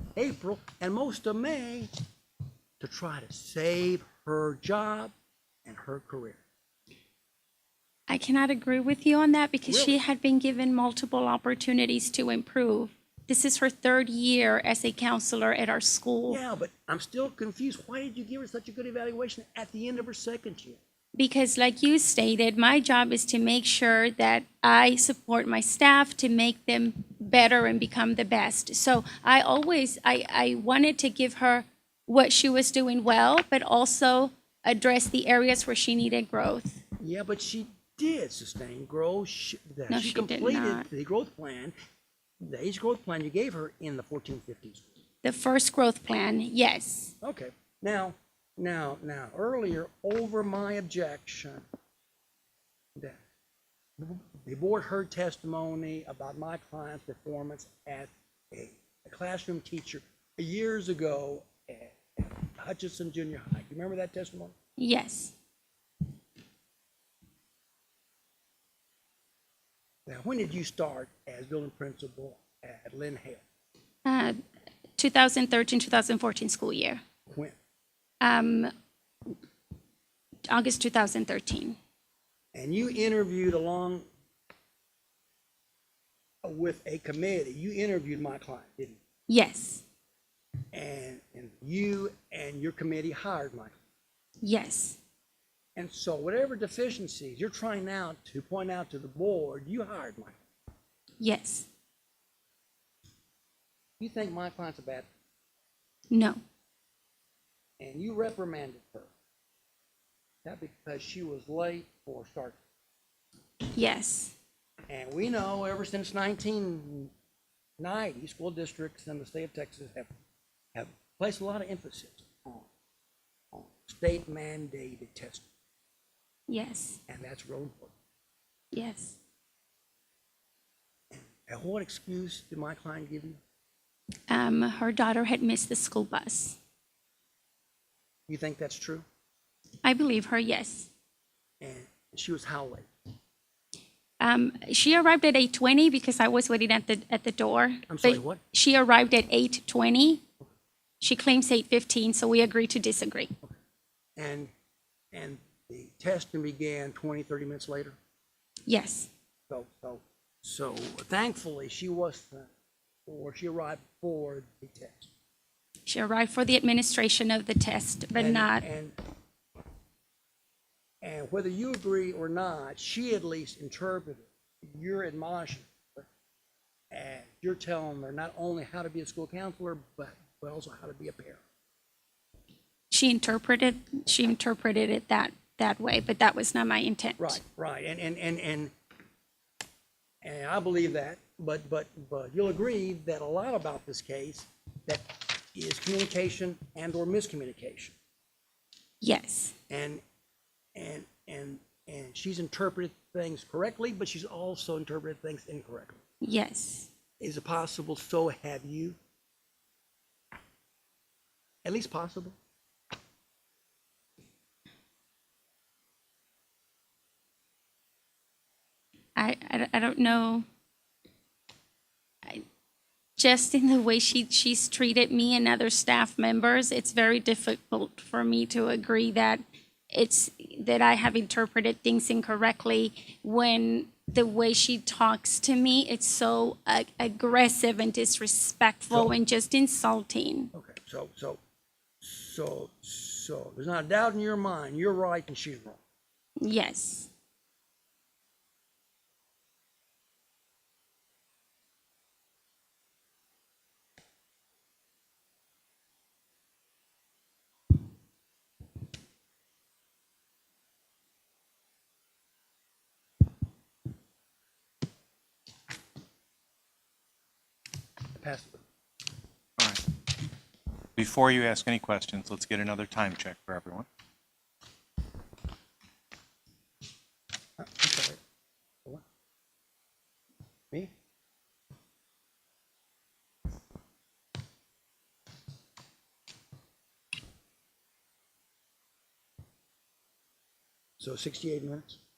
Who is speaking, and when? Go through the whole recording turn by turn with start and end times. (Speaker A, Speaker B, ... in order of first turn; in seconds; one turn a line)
Speaker A: 0.2-1.9
Speaker A: 2.8-5.1
Speaker A: 5.7-6.4
Speaker B: 8.1-16.4
Speaker A: 9.7-10.0
Speaker A: 16.3-20.8
Speaker B: 21.1-36.8
Speaker A: 37.0-41.7
Speaker B: 39.9-40.9
Speaker A: 42.4-44.9
Speaker B: 45.2-47.1
Speaker A: 47.2-51.6
Speaker A: 54.0-64.5
Speaker B: 64.8-65.3
Speaker A: 70.1-73.4
Speaker B: 74.0-74.4
Speaker B: 75.0-77.0
Speaker A: 77.3-77.5
Speaker B: 78.2-78.7
Speaker B: 80.5-81.8
Speaker A: 82.5-84.1
Speaker A: 86.4-89.0
Speaker B: 89.3-89.8
Speaker A: 90.7-93.8
Speaker B: 94.4-95.0
Speaker A: 95.8-100.4
Speaker B: 101.2-101.7
Speaker A: 104.0-105.1
Speaker B: 106.1-106.4
Speaker A: 107.8-109.1
Speaker A: 110.4-112.6
Speaker B: 113.7-114.3
Speaker A: 114.9-117.1
Speaker A: 117.8-120.1
Speaker A: 120.7-122.7
Speaker A: 123.5-125.5
Speaker B: 126.5-127.0
Speaker A: 127.1-127.9
Speaker B: 128.7-129.2
Speaker A: 131.1-133.4
Speaker B: 134.3-136.6
Speaker A: 138.3-139.1
Speaker B: 139.8-140.9
Speaker A: 141.6-142.9
Speaker B: 144.2-150.2
Speaker A: 147.9-148.4
Speaker B: 151.0-153.3
Speaker A: 154.2-154.5
Speaker A: 155.1-158.0
Speaker B: 158.7-159.1
Speaker A: 159.5-162.5
Speaker A: 163.1-165.1
Speaker B: 165.9-168.6
Speaker A: 168.2-169.0
Speaker A: 171.0-176.1
Speaker A: 176.9-181.4
Speaker B: 182.9-187.4
Speaker A: 187.2-188.7
Speaker A: 190.2-197.9
Speaker B: 199.0-199.5
Speaker A: 199.7-200.0
Speaker A: 200.8-206.0
Speaker B: 206.2-206.9
Speaker A: 207.2-209.0
Speaker A: 211.6-212.4
Speaker B: 219.2-220.4
Speaker B: 223.2-240.5
Speaker A: 240.5-241.4
Speaker A: 242.0-245.8
Speaker B: 246.4-247.1
Speaker A: 268.2-268.6
Speaker C: 269.6-269.8
Speaker C: 271.0-273.9
Speaker A: 277.6-278.2
Speaker A: 291.0-292.0